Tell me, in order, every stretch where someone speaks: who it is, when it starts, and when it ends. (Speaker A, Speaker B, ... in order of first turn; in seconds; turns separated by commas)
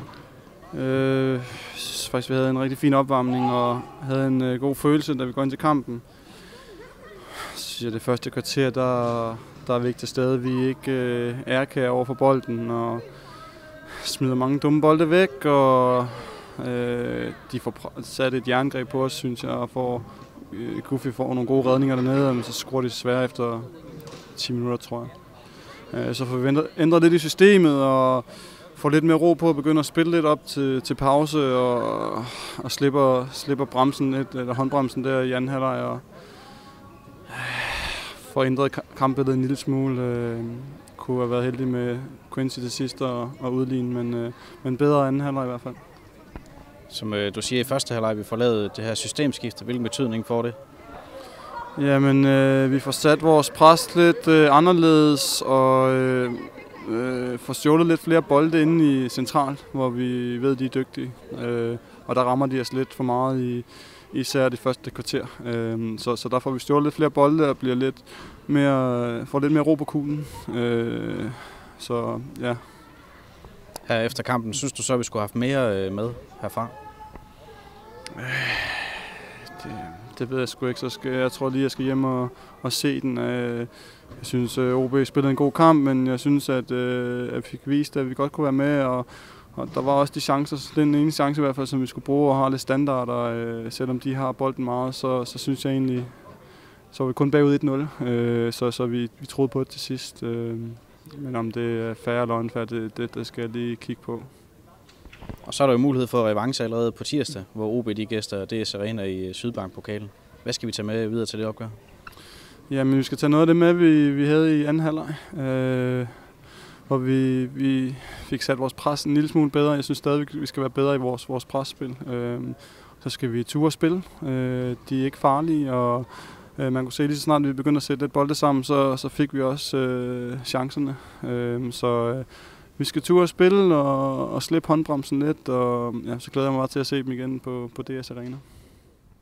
Speaker A: 0.7-6.5, Speaker A: 7.5-36.6, Speaker A: 37.3-45.8, Speaker B: 46.9-50.5, Speaker A: 51.7-72.6, Speaker B: 73.8-76.7, Speaker A: 78.2-79.0, Speaker A: 79.5-104.3, Speaker B: 105.4-111.8, Speaker A: 112.7-138.5